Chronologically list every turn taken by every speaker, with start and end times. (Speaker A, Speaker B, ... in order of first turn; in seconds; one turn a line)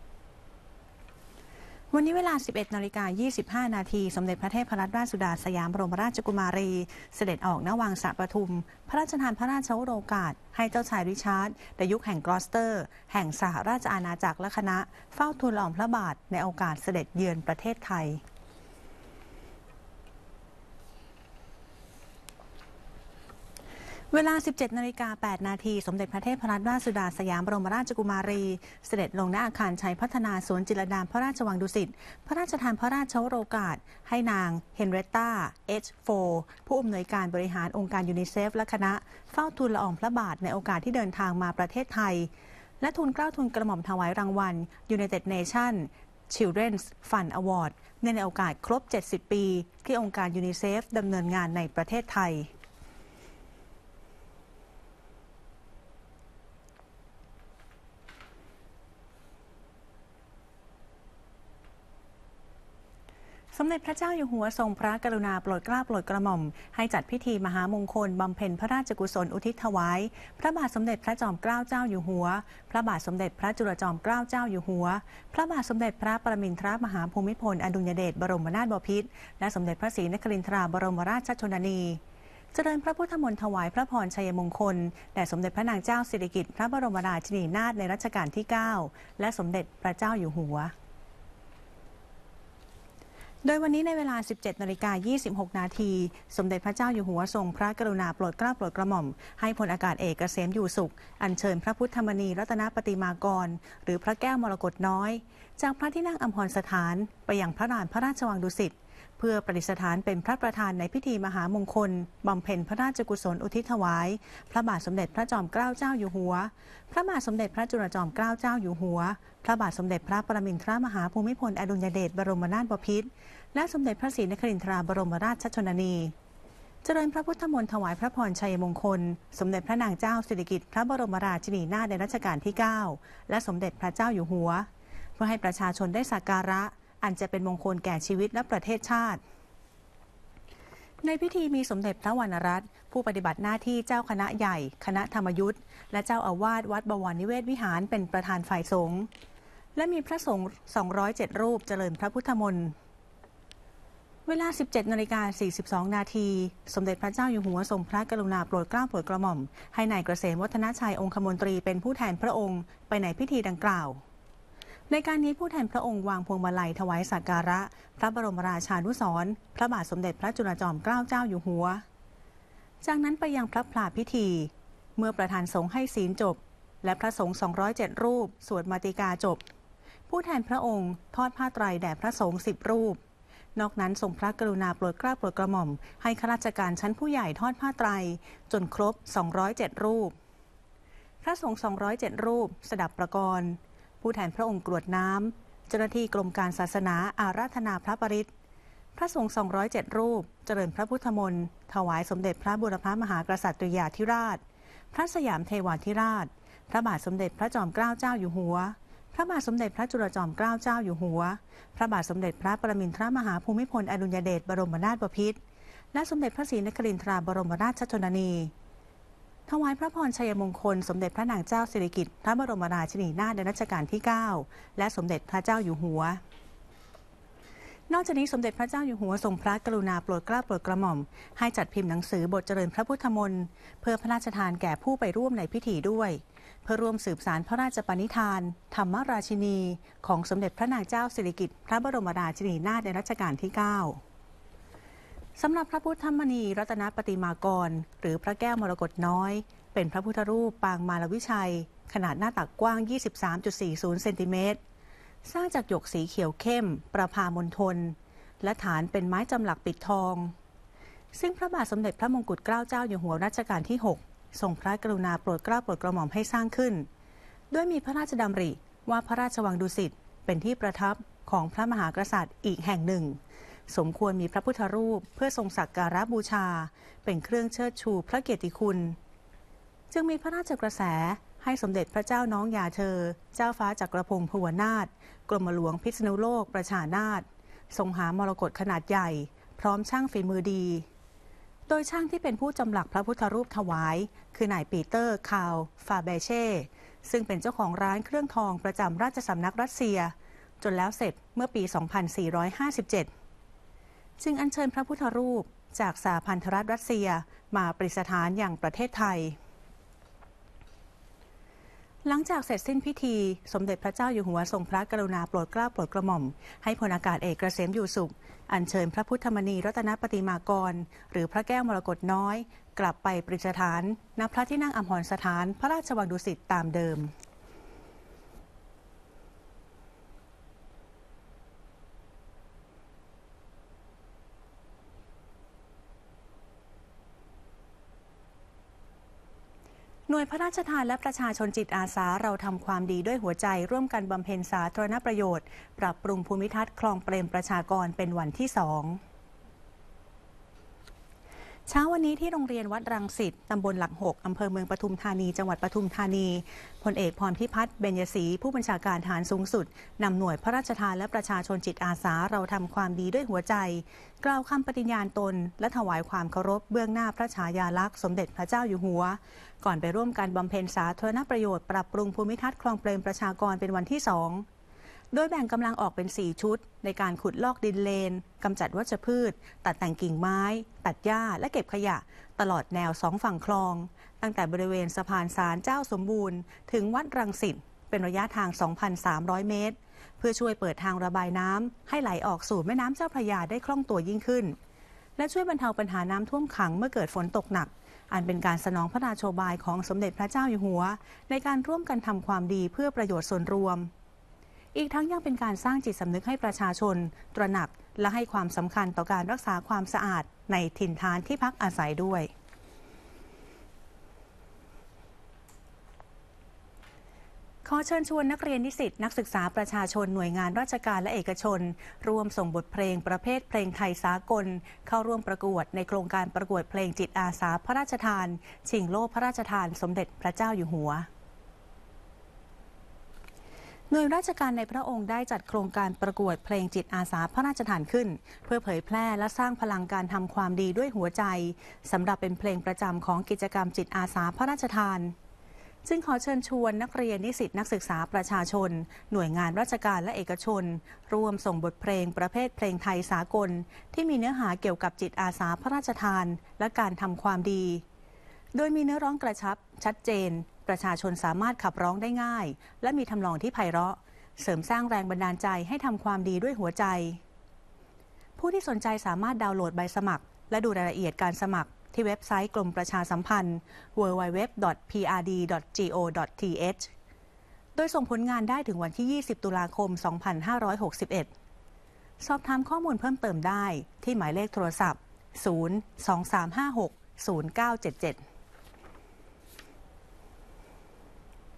Speaker A: 1.9-18.2
Speaker A: 24.1-52.5
Speaker A: 63.5-82.0
Speaker A: 82.5-90.7
Speaker A: 93.4-126.1
Speaker A: 126.8-134.7
Speaker A: 135.2-139.2
Speaker A: 141.0-149.1
Speaker A: 149.7-152.7
Speaker A: 154.2-164.0
Speaker A: 164.9-171.8
Speaker A: 172.8-179.4
Speaker A: 180.1-183.0
Speaker A: 183.5-190.1
Speaker A: 191.2-198.3
Speaker A: 198.9-215.4
Speaker A: 215.9-218.5
Speaker A: 219.5-226.2
Speaker A: 227.9-244.0
Speaker A: 245.4-254.6
Speaker A: 255.2-260.3
Speaker A: 261.1-266.9
Speaker A: 267.5-279.0
Speaker A: 279.9-290.9
Speaker A: 291.7-303.1
Speaker A: 304.2-309.4
Speaker A: 312.0-327.1
Speaker A: 340.1-349.0
Speaker A: 351.7-374.4
Speaker A: 375.1-394.6
Speaker A: 395.2-403.9
Speaker A: 404.7-412.3
Speaker A: 417.6-431.1
Speaker A: 433.9-445.1
Speaker A: 445.8-457.8
Speaker A: 458.5-467.2
Speaker A: 468.4-476.9
Speaker A: 477.8-481.3
Speaker A: 482.2-488.2